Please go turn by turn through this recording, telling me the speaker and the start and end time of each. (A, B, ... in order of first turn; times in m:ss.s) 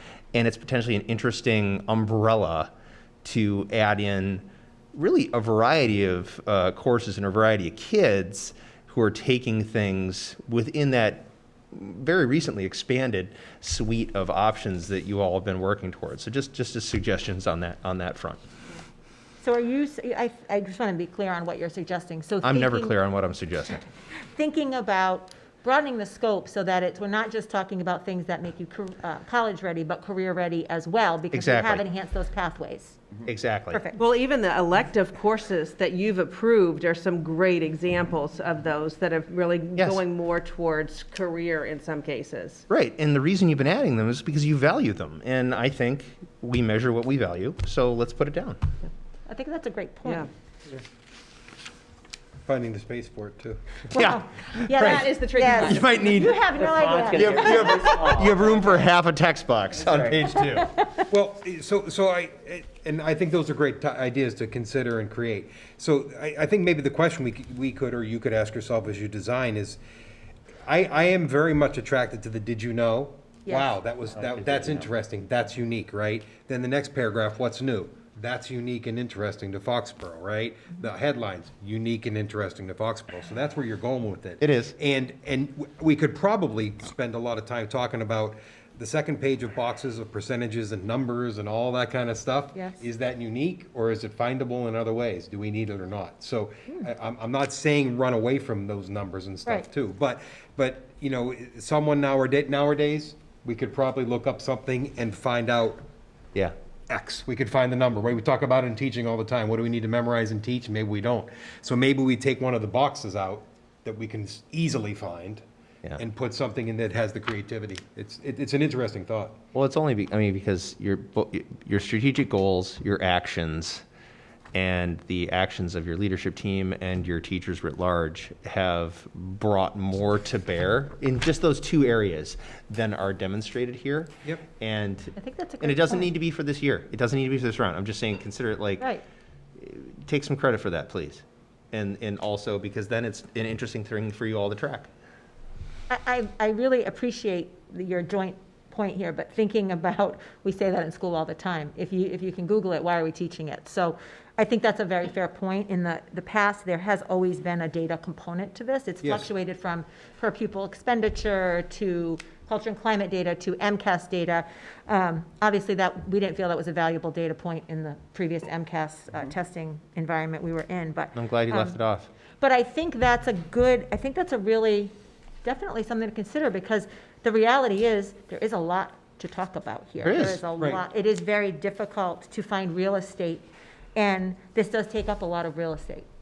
0:00.3-0:02.7 A
0:03.2-0:18.4 A
0:19.4-0:23.0 B
0:22.4-0:23.8 A
0:24.1-0:33.1 B
0:31.3-0:31.8 A
0:33.2-0:33.8 A
0:33.7-0:34.0 B
0:34.0-0:42.6 C
0:42.7-0:48.6 A
0:49.3-0:50.3 B
0:52.4-0:53.8 D
0:53.9-0:58.1 B
0:54.0-0:54.2 A
0:54.7-0:56.3 C
0:55.6-0:56.5 D
0:57.1-1:00.7 A
1:00.4-1:01.0 B
1:01.1-1:09.8 D
1:10.6-1:45.8 D
1:13.5-1:13.7 B
1:24.4-1:24.8 A
1:46.9-1:55.4 D
1:56.0-1:59.4 D
1:59.5-2:03.8 A
2:04.5-2:18.9 A
2:15.2-2:16.1 B
2:19.6-2:24.9 A
2:25.9-2:51.8 B
2:39.0-2:39.3 D
2:51.1-2:52.1 A
2:52.4-3:06.0 B
3:00.0-3:00.4 A